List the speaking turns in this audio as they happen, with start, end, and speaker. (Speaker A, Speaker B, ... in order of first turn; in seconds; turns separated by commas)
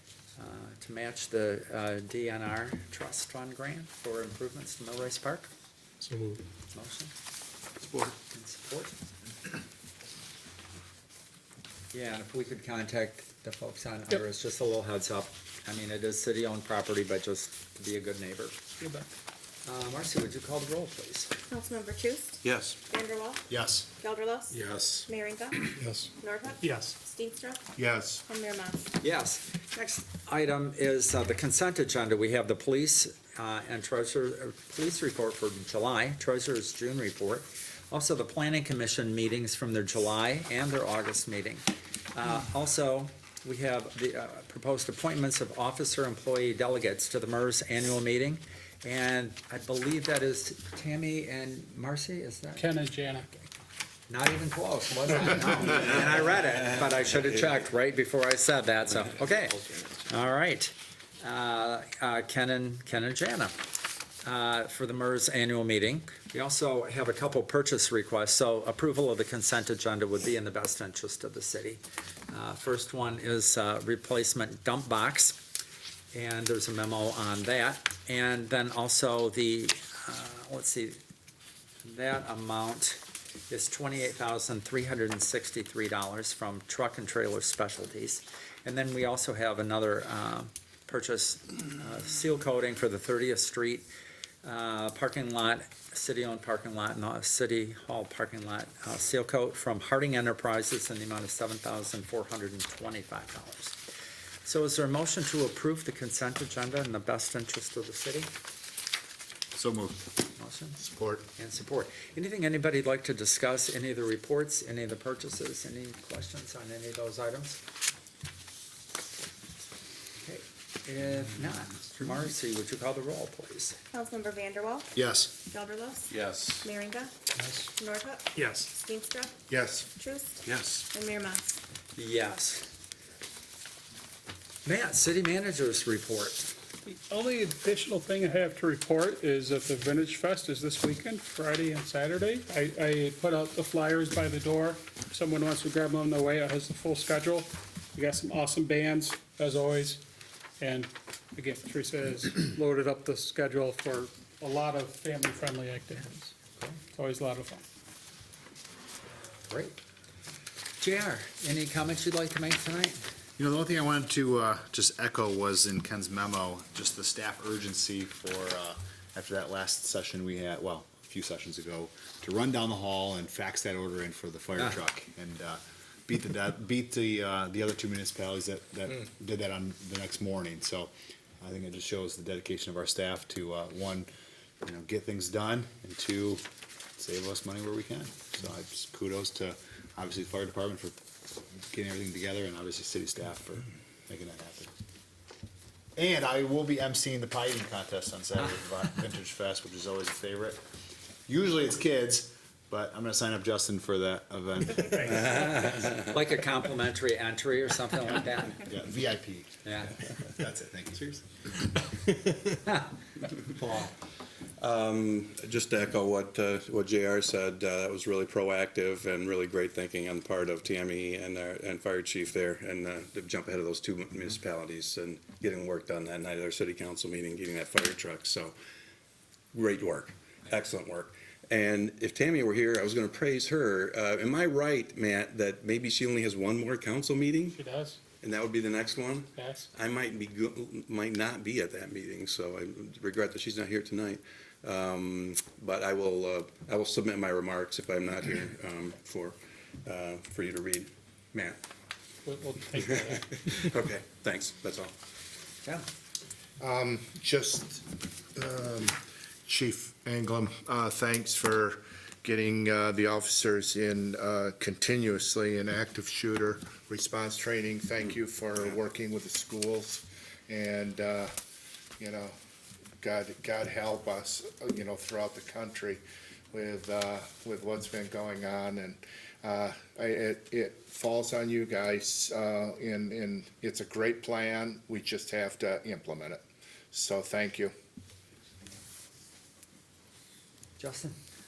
Speaker A: 0.4-5.5, Speaker B: 6.1-6.4, Speaker A: 6.7-7.1, Speaker C: 7.8-8.1, Speaker A: 8.3-8.9, Speaker A: 11.9-18.6, Speaker B: 18.8-19.1, Speaker A: 19.6-21.3, Speaker D: 21.5-23.5, Speaker C: 22.4-22.8, Speaker E: 23.5-23.9, Speaker D: 24.0-27.7, Speaker B: 25.8-26.1, Speaker B: 26.6-26.9, Speaker F: 27.8-28.2, Speaker D: 28.3-28.9, Speaker A: 29.0-52.7, Speaker B: 52.6-53.3, Speaker A: 54.1-63.5, Speaker A: 64.2-75.4, Speaker A: 76.1-81.0, Speaker A: 81.8-93.9, Speaker A: 94.4-103.8, Speaker A: 104.4-108.3, Speaker E: 109.5-110.0, Speaker A: 110.4-110.8, Speaker F: 110.8-111.3, Speaker A: 111.4-117.6, Speaker A: 120.2-123.8, Speaker D: 123.9-124.9, Speaker E: 125.0-125.3, Speaker D: 125.5-127.1, Speaker C: 126.1-126.7, Speaker D: 127.8-131.6, Speaker F: 129.5-129.9, Speaker C: 130.4-130.8, Speaker A: 132.0-132.7, Speaker A: 134.7-136.5, Speaker B: 136.9-150.0, Speaker B: 150.6-156.3, Speaker B: 156.9-157.6, Speaker A: 159.5-159.8, Speaker A: 160.8-163.0, Speaker E: 163.4-184.1, Speaker E: 184.6-186.4, Speaker E: 187.0-191.0, Speaker E: 191.7-194.7, Speaker E: 196.0-200.6, Speaker E: 201.3-205.4, Speaker A: 205.1-208.6, Speaker E: 208.6-209.6, Speaker A: 209.6-209.9, Speaker E: 210.1-211.3, Speaker C: 213.6-213.9, Speaker C: 214.6-228.5, Speaker C: 229.5-237.6, Speaker B: 237.6-238.0, Speaker C: 238.2-251.6, Speaker B: 239.3-239.7, Speaker B: 252.3-253.4, Speaker C: 253.0-254.9, Speaker F: 256.6-271.3, Speaker F: 272.0-272.4, Speaker F: 273.0-287.7, Speaker A: 290.8-291.2